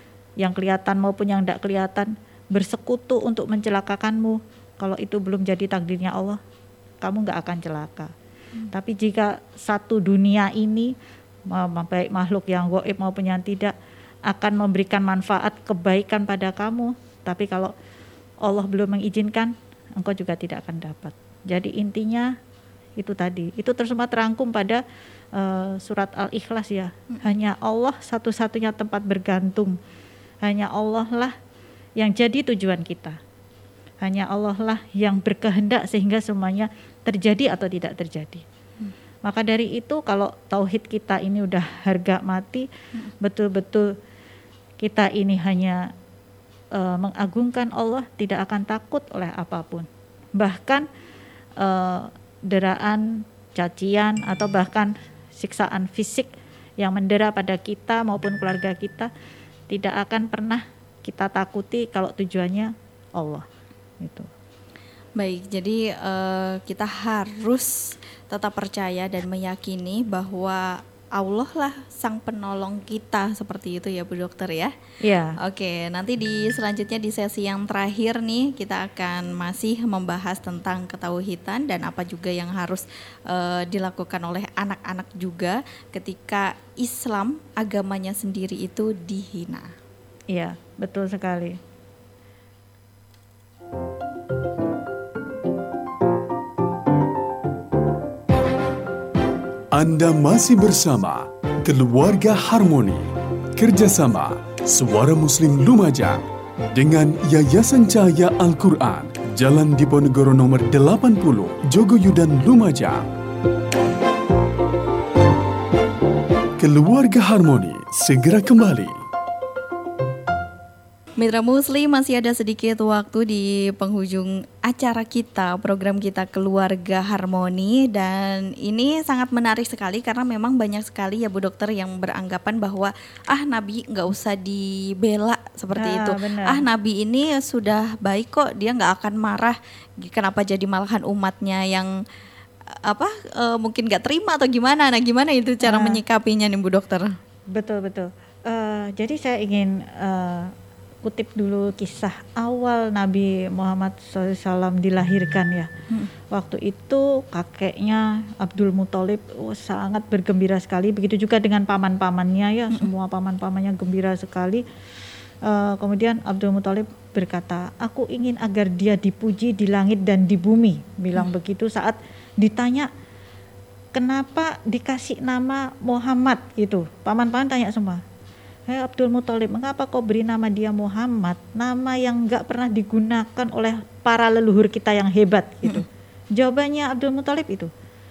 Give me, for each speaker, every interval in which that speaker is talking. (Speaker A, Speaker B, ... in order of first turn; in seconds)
Speaker A: 0.4-6.4, 7.0-8.1, 8.7-10.9, 11.5-13.7, 14.3-17.7, 18.4-22.3, 23.0-24.8, 25.3-29.8, 30.4-31.3, 32.0-33.2, 34.0-38.4, 39.2-42.7, 43.2-43.9, 44.8-45.9, 46.7-50.9, 51.6-59.1, 59.7-63.4, 64.0-64.3, 75.0-75.4, 90.3-91.6, 135.8-136.6, 145.6-146.0, 147.5-150.5, 151.0-155.7, 156.3-164.6, 165.4-172.9, 173.9-178.0, 178.7-187.7
Speaker B: 65.2-74.7, 75.4-89.7, 121.2-141.9, 142.8-147.1
Speaker C: 99.7-106.2, 106.7-113.1, 116.6-119.0